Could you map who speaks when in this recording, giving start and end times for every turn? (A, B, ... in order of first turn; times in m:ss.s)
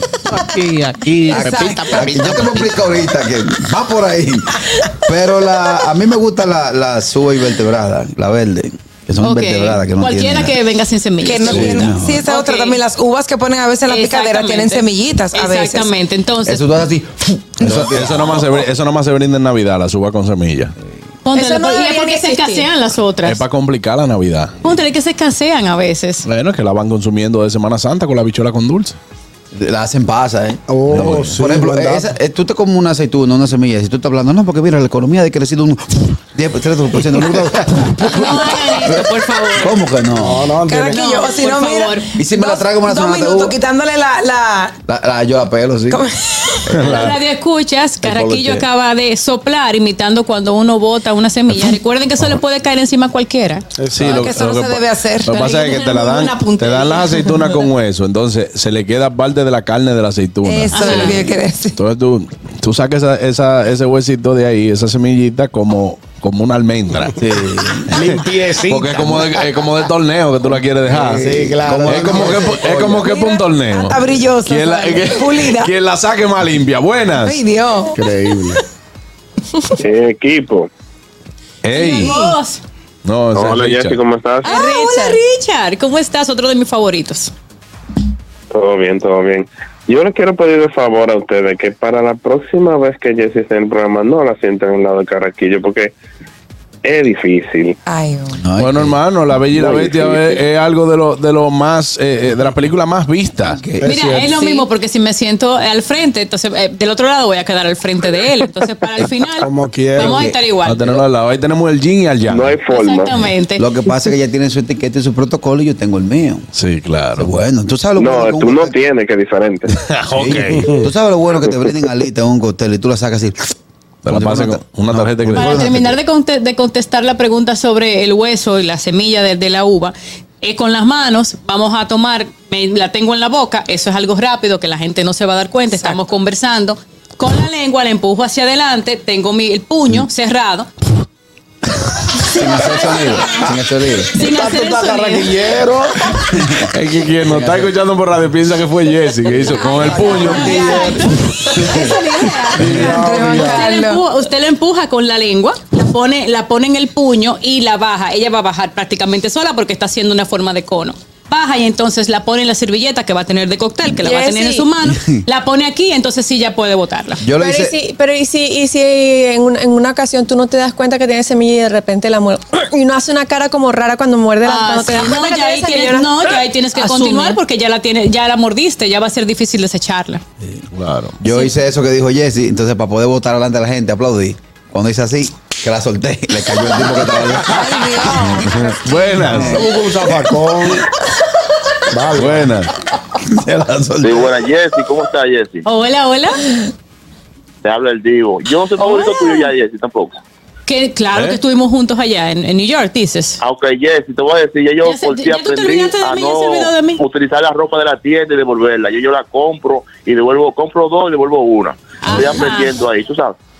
0:00.3-0:02.7 A
0:01.2-0:10.6 B
0:01.3-0:02.0 C
0:09.2-0:12.8 D
0:11.2-0:15.9 C
0:11.5-0:12.2 B
0:13.9-0:16.8 D
0:16.4-0:18.6 B
0:17.6-0:20.7 E
0:21.2-0:23.4 D
0:21.3-0:22.7 F
0:23.2-0:24.6 E
0:24.6-0:26.2 D
0:26.2-0:29.0 E
0:29.5-0:40.5 B
0:30.7-0:32.1 G
0:30.9-0:31.4 E
0:38.0-0:39.8 D
0:40.2-0:41.0 G
0:40.7-0:44.8 C
0:40.9-0:42.1 D
0:42.1-0:43.6 B
0:44.9-0:46.0 B
0:45.9-0:46.7 C
0:46.7-0:47.1 B
0:46.7-0:47.2 E
0:46.8-0:53.6 D
0:48.0-0:48.6 B
0:53.8-0:54.3 G
0:53.9-1:07.2 E
0:54.0-0:55.5 C
0:55.5-0:57.2 D
1:00.4-1:01.8 C
1:00.7-1:01.2 D
1:07.1-1:08.1 B
1:07.9-1:09.4 G
1:08.7-1:17.4 E
1:10.9-1:13.0 G
1:10.9-1:13.0 B
1:13.0-1:15.7 C
1:17.2-1:18.0 C
1:17.9-1:18.6 G
1:19.8-1:20.7 H
1:21.6-1:22.1 E
1:21.7-1:22.6 D
1:21.8-1:22.4 F
1:23.0-1:24.0 E
1:23.3-1:24.5 H
1:24.4-1:25.2 F
1:24.4-1:27.3 D
1:28.5-1:35.9 H
1:36.8-1:37.8 H
1:37.9-1:38.4 C
1:38.4-1:39.0 B
1:38.6-1:43.6 E
1:43.4-1:44.2 B
1:43.8-1:44.4 G
1:43.8-1:50.9 D
1:49.4-1:50.4 G
1:50.6-1:52.6 E
1:52.3-1:53.3 H
1:52.7-1:53.6 D
1:53.6-1:56.5 B
1:56.5-1:57.3 E
1:57.2-1:58.7 B
1:58.0-1:59.7 H
1:59.8-2:00.6 E
2:00.1-2:03.5 B
2:04.0-2:05.7 E
2:04.1-2:06.0 B
2:05.3-2:20.7 D
2:22.2-2:24.1 B
2:22.4-2:23.4 D
2:24.1-2:25.5 D
2:24.2-2:26.2 G
2:26.3-2:27.7 B
2:26.7-2:30.7 E
2:29.7-2:30.8 B
2:29.8-2:31.1 C
2:29.9-2:47.2 D
2:30.4-2:30.8 G
2:31.4-2:31.9 B
2:32.6-2:32.9 B
2:32.6-2:32.9 E
2:32.6-2:33.7 G
2:32.7-2:34.0 C
2:44.0-2:44.7 F
2:44.8-2:45.2 B
2:47.2-2:47.8 B
2:47.3-2:56.4 F
2:54.4-3:00.2 D
2:56.8-2:57.4 A
3:00.7-3:01.2 E
3:01.2-3:08.2 B
3:07.4-3:09.4 C
3:08.2-3:09.7 E
3:09.2-3:09.7 B
3:09.3-3:10.9 G
3:11.9-3:12.6 G
3:12.2-3:12.7 E
3:13.1-3:14.4 B
3:14.0-3:15.6 I
3:15.6-3:16.5 D
3:17.6-3:20.2 I
3:18.8-3:19.5 D
3:20.7-3:23.4 D
3:23.4-3:33.4 I
3:24.8-3:27.0 D
3:32.0-3:32.8 D